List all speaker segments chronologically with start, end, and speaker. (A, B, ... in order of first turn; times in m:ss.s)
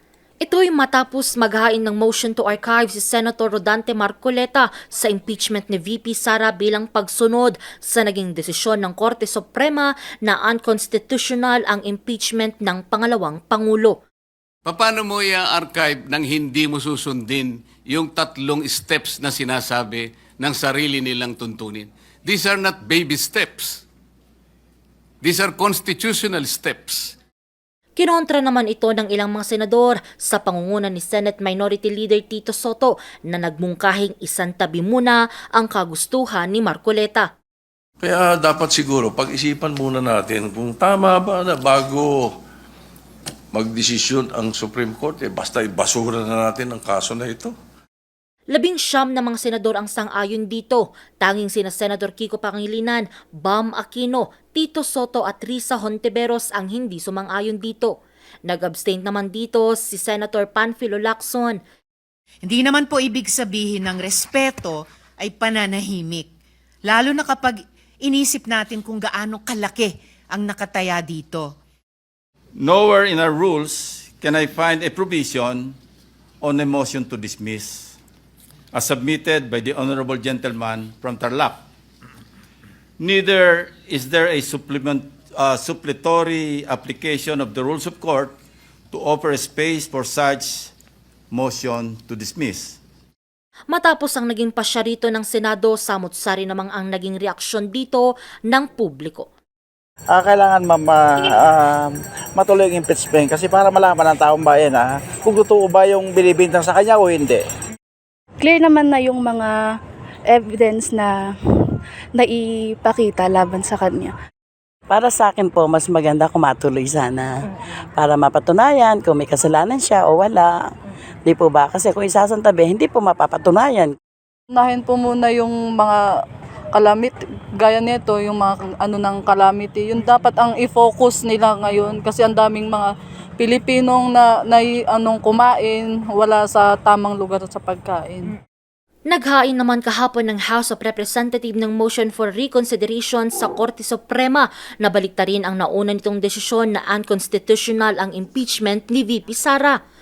0:00.4-0:14.0 A
0:14.6-0:23.8 B
0:25.2-0:27.1 B
0:28.0-0:37.3 A
0:38.0-0:42.3 C
0:43.5-0:47.5 C
0:48.5-1:01.6 A
1:02.4-1:06.3 D
1:06.9-1:11.6 D
1:12.6-1:15.8 E
1:16.4-1:18.0 E
1:18.7-1:21.6 E
1:23.0-1:28.4 E
1:28.9-1:30.7 E
1:31.3-1:32.8 E
1:33.7-1:39.3 A
1:40.1-1:47.4 F
1:48.4-1:49.5 G
1:50.3-1:51.1 G
1:52.2-1:54.1 G
1:54.9-1:56.9 G
1:55.0-1:57.3 H
1:58.0-1:58.5 G
1:58.0-2:00.5 H
1:59.2-2:00.4 G
2:01.3-2:03.8 G
2:01.3-2:03.9 H
2:04.5-2:06.1 I
2:06.7-2:18.3 I
2:19.1-2:29.8 A